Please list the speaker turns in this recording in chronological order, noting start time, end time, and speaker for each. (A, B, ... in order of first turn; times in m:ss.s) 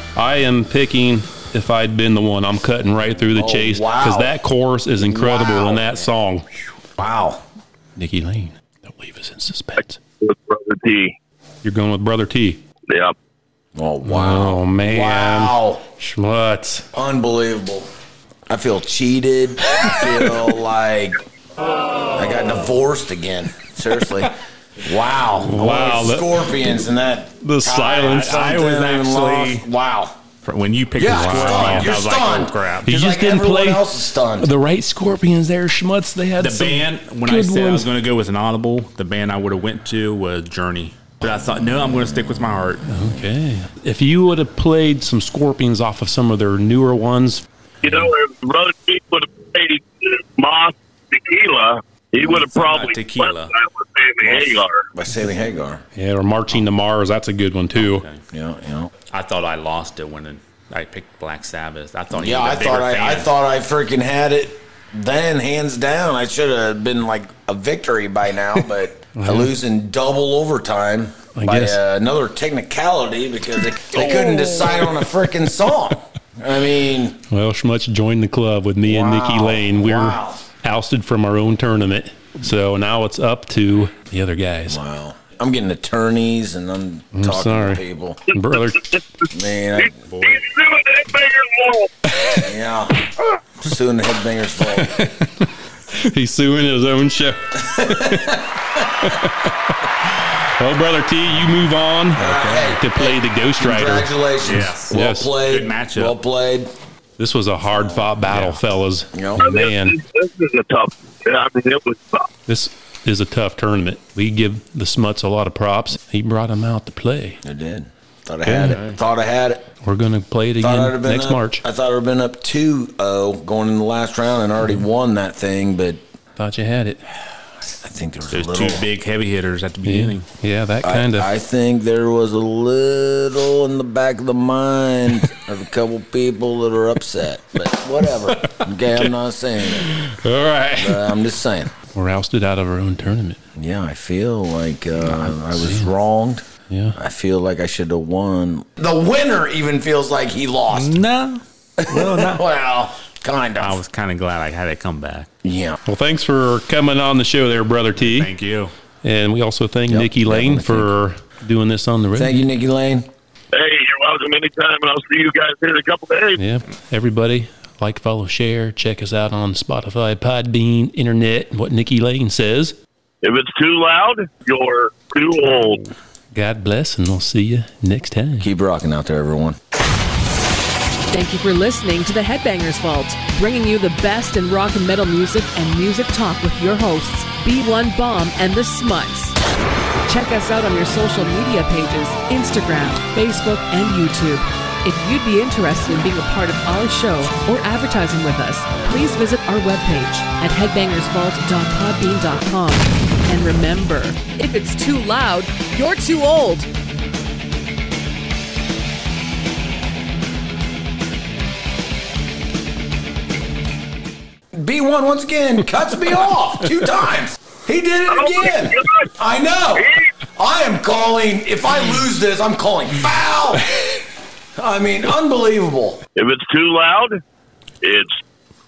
0:00.2-0:06.5 A
0:03.3-0:04.4 B
0:05.0-0:06.0 B
0:07.0-0:07.4 B
0:08.0-0:10.0 A
0:10.2-0:11.2 C
0:11.6-0:12.6 A
0:12.9-0:13.2 C
0:13.8-0:15.8 B
0:14.0-0:16.9 A
0:16.9-0:17.9 B
0:18.5-0:21.2 B
0:22.2-0:30.2 B
0:25.5-0:26.5 A
0:27.4-0:28.3 A
0:28.0-0:29.7 D
0:30.4-0:32.8 D
0:31.0-0:34.5 B
0:31.1-0:31.9 A
0:32.9-0:33.9 A
0:34.4-0:37.9 A
0:36.4-0:42.8 D
0:42.9-0:47.4 A
0:47.8-0:54.8 C
0:47.8-0:48.1 D
0:52.2-0:53.5 D
0:54.2-0:54.6 D
0:54.9-0:55.8 B
0:56.0-0:58.0 A
0:57.8-0:58.2 D
0:58.3-0:58.9 B
0:59.1-1:03.3 D
1:02.1-1:17.2 B
1:09.1-1:09.5 A
1:11.4-1:11.8 A
1:17.3-1:24.8 A
1:18.8-1:20.5 B
1:24.7-1:28.2 B
1:27.1-1:28.9 A
1:29.3-1:30.0 B
1:29.8-1:31.9 C
1:30.1-1:30.4 D
1:32.4-1:33.0 B
1:33.6-1:35.0 B
1:34.9-1:38.4 A
1:37.6-1:38.4 B
1:39.0-1:39.5 A
1:40.6-1:42.2 A
1:42.2-1:46.7 B
1:42.2-1:42.6 D
1:42.7-1:44.1 A
1:44.4-1:46.2 D
1:44.9-1:45.3 A
1:47.2-1:50.0 A
1:47.7-1:48.1 B
1:48.3-1:48.6 D
1:49.1-1:49.5 B
1:49.4-1:52.3 C
1:52.5-1:57.4 A
1:57.4-1:59.7 B
1:58.5-1:58.7 A
1:58.6-1:59.0 D
1:59.8-2:01.6 A
2:00.6-2:06.0 B
2:06.4-2:07.0 A
2:07.6-2:08.9 B
2:08.3-2:10.3 D
2:09.8-2:11.3 A
2:10.8-2:19.9 B
2:18.4-2:19.1 A
2:19.8-2:21.1 A
2:20.8-2:21.7 B
2:21.9-2:23.4 A
2:23.6-2:31.0 B
2:25.0-2:25.9 A
2:26.7-2:27.0 A
2:30.7-2:32.4 D
2:31.8-2:33.8 B
2:33.6-2:35.3 D
2:35.4-2:35.8 B
2:35.9-2:38.3 A
2:38.0-2:38.7 D
2:39.0-2:42.4 A
2:39.9-2:41.0 B
2:42.2-2:43.1 B
2:43.5-2:46.4 C
2:46.4-2:52.8 A
2:53.2-2:55.8 C
2:56.3-2:58.5 A
2:58.4-2:59.6 B
3:01.1-3:09.4 E
3:10.1-3:26.7 E
3:34.5-3:44.0 B
3:38.2-3:39.0 C
3:44.6-3:46.0 B
3:46.2-3:47.2 C
3:47.8-3:48.2 C